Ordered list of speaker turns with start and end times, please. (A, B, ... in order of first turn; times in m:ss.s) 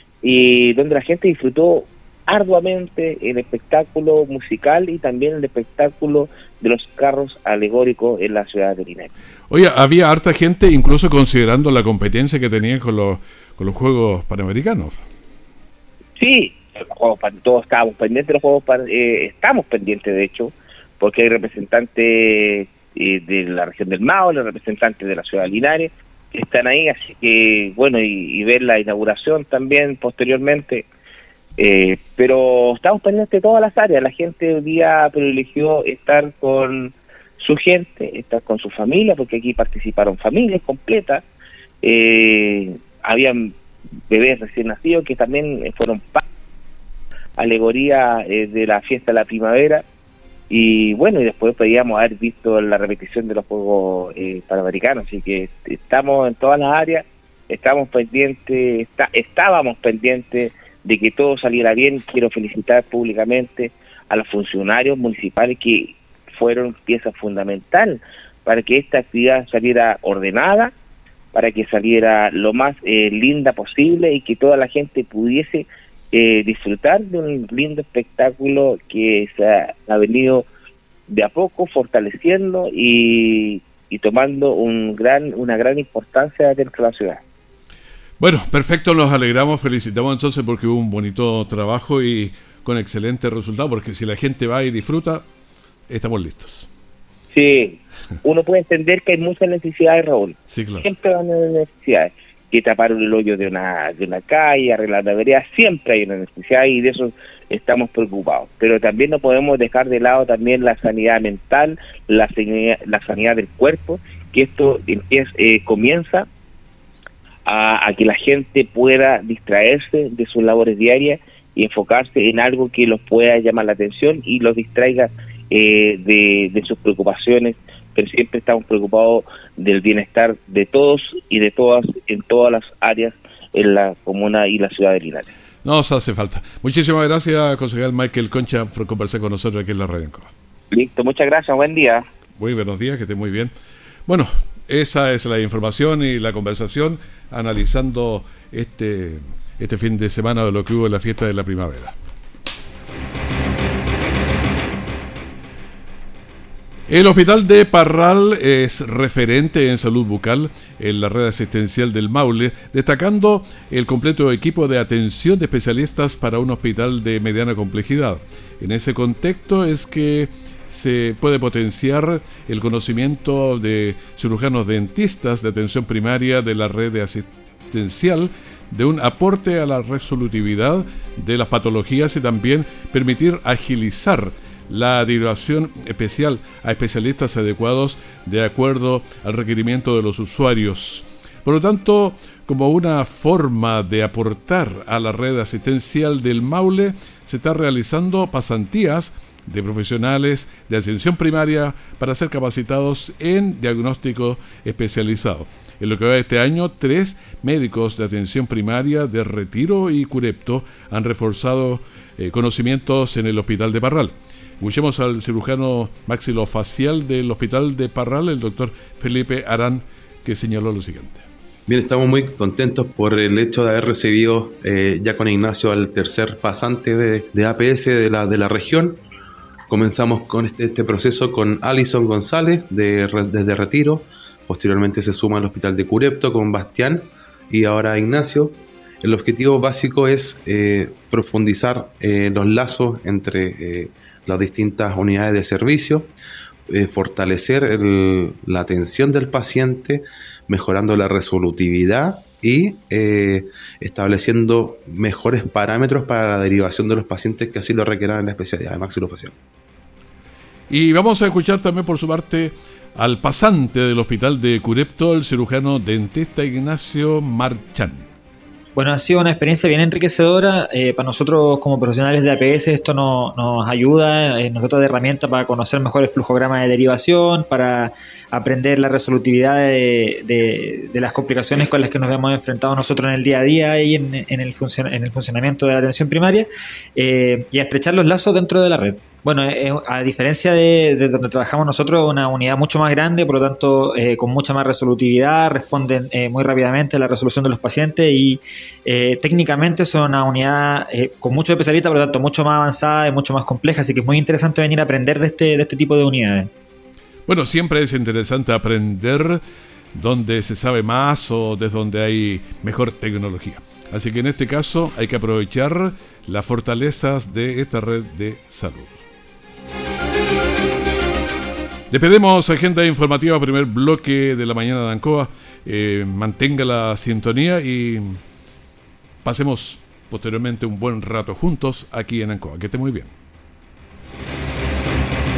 0:00.2-0:09.1 A
0:09.5-0:15.0 B
0:16.2-0:30.9 A
0:31.6-0:41.2 A
0:41.8-0:43.5 A
0:44.1-0:46.2 A
0:47.4-0:49.8 A
0:50.5-1:10.7 A
1:11.3-1:20.5 A
1:21.1-1:27.2 A
1:28.2-1:35.2 B
1:35.9-1:36.7 B
1:37.3-1:56.3 A
1:40.5-1:40.9 B
1:57.5-2:15.3 A
2:15.6-2:20.3 B
2:20.7-2:22.1 A
2:22.4-2:23.5 B
2:24.1-2:32.0 B
2:36.9-3:41.3 B
3:41.7-3:49.0 C
3:49.7-4:06.1 C
4:06.7-4:19.4 C
4:20.7-4:28.1 B
4:28.8-5:06.5 D
5:07.3-5:09.4 B
5:09.9-5:19.0 B
5:21.9-5:28.2 B
5:29.2-5:33.1 B